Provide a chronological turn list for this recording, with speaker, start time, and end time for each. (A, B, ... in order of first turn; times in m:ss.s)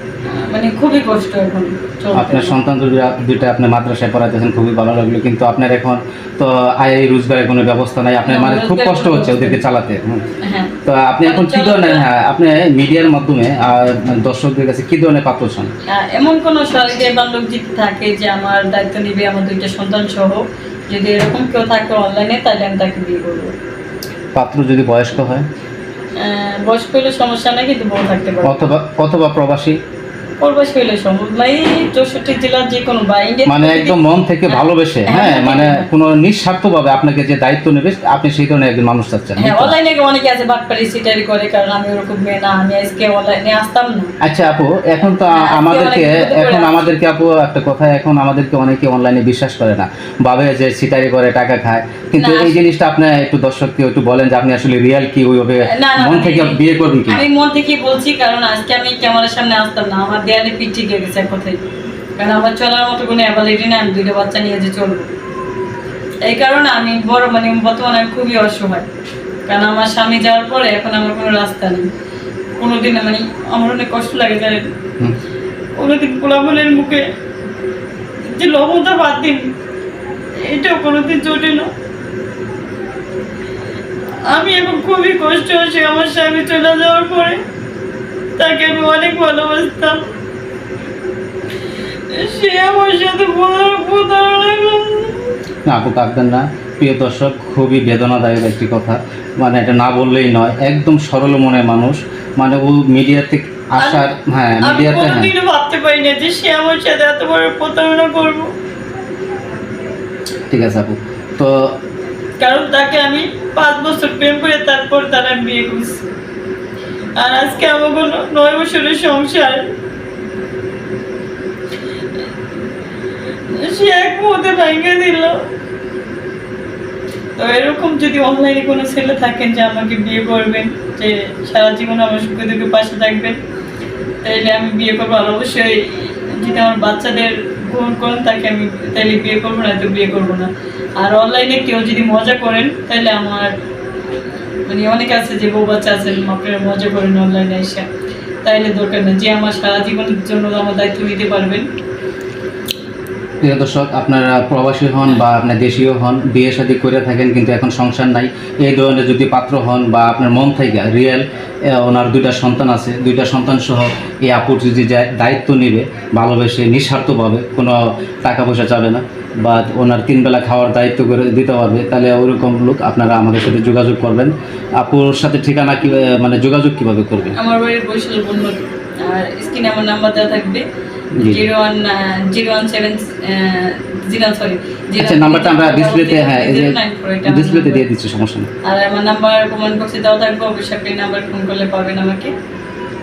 0:00.3-0:02.6 A
0:02.1-0:10.2 B
0:08.2-0:09.6 A
0:10.4-0:12.0 A
0:10.8-0:15.7 B
0:15.9-0:23.5 A
0:24.3-0:25.4 B
0:26.2-0:28.7 A
0:28.4-0:29.8 B
0:30.4-0:35.9 A
0:33.5-0:39.7 B
0:39.4-0:44.1 A
0:44.2-0:57.2 B
0:45.3-0:46.8 A
0:52.2-0:52.6 A
0:55.7-1:01.6 A
1:02.2-1:05.1 A
1:06.2-1:08.9 A
1:09.5-1:11.9 A
1:12.6-1:14.6 A
1:15.8-1:17.0 A
1:18.3-1:19.4 A
1:20.4-1:21.7 A
1:24.3-1:27.4 A
1:28.4-1:30.0 A
1:32.1-1:35.3 A
1:35.6-1:45.3 B
1:43.8-1:44.0 A
1:44.6-1:48.5 A
1:50.5-1:51.7 B
1:52.4-1:56.0 A
1:57.2-1:59.7 A
2:03.5-2:05.4 A
2:07.4-2:13.4 A
2:14.2-2:23.5 A
2:24.7-2:27.8 A
2:28.4-2:31.7 A
2:33.4-2:57.3 B
2:57.4-3:00.6 A
3:01.2-3:01.4 B
3:01.2-3:07.8 A
3:05.0-3:08.5 B
3:08.6-3:12.3 A